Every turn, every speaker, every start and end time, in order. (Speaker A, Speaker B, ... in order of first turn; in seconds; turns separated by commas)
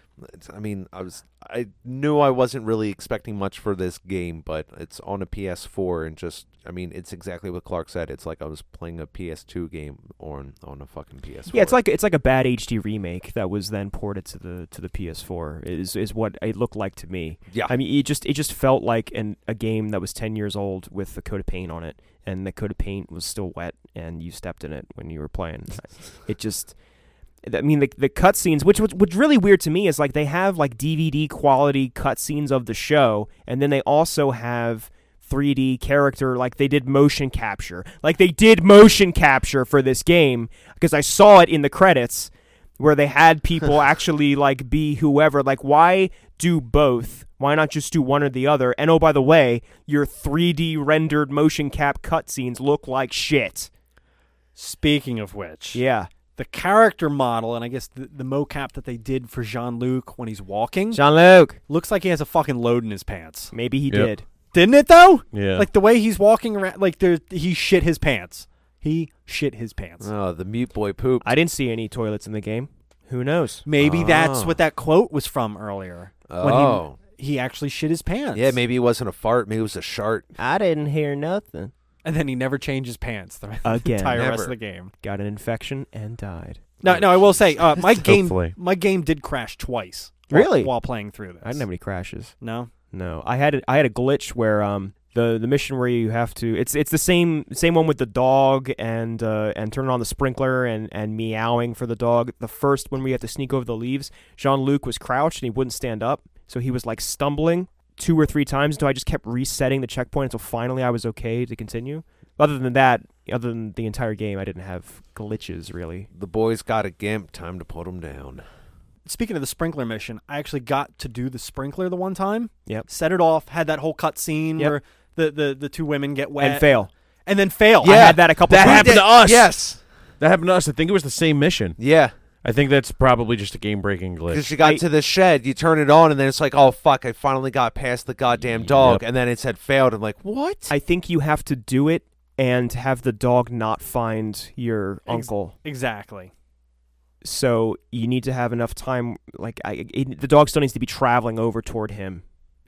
Speaker A: 0.2-11.8, Speaker B: 11.5-26.8, Speaker A: 17.5-17.8, Speaker B: 27.4-53.7, Speaker C: 54.6-55.8, Speaker B: 55.7-56.1, Speaker C: 56.4-61.0, Speaker B: 60.9-61.6, Speaker C: 61.7-63.5, Speaker B: 63.5-64.2, Speaker C: 64.5-70.1, Speaker D: 65.3-65.7, Speaker A: 70.0-71.3, Speaker B: 71.2-73.6, Speaker C: 73.7-78.6, Speaker A: 73.8-74.6, Speaker A: 76.3-77.0, Speaker A: 78.3-80.3, Speaker B: 80.4-81.7, Speaker C: 82.0-84.9, Speaker B: 83.6-84.3, Speaker A: 84.1-84.5, Speaker B: 85.0-86.6, Speaker C: 86.8-91.7, Speaker A: 86.8-87.3, Speaker D: 88.0-88.5, Speaker B: 90.3-90.7, Speaker B: 91.4-92.3, Speaker C: 92.4-92.7, Speaker B: 92.9-116.1, Speaker A: 116.1-118.4, Speaker C: 119.0-128.2, Speaker B: 126.4-126.9, Speaker B: 127.8-129.0, Speaker A: 127.8-129.8, Speaker D: 128.5-129.5, Speaker D: 130.2-131.8, Speaker A: 131.8-132.1, Speaker D: 132.4-134.5, Speaker A: 134.3-140.7, Speaker D: 138.5-139.1, Speaker B: 140.7-145.5, Speaker C: 145.1-146.3, Speaker B: 147.2-152.2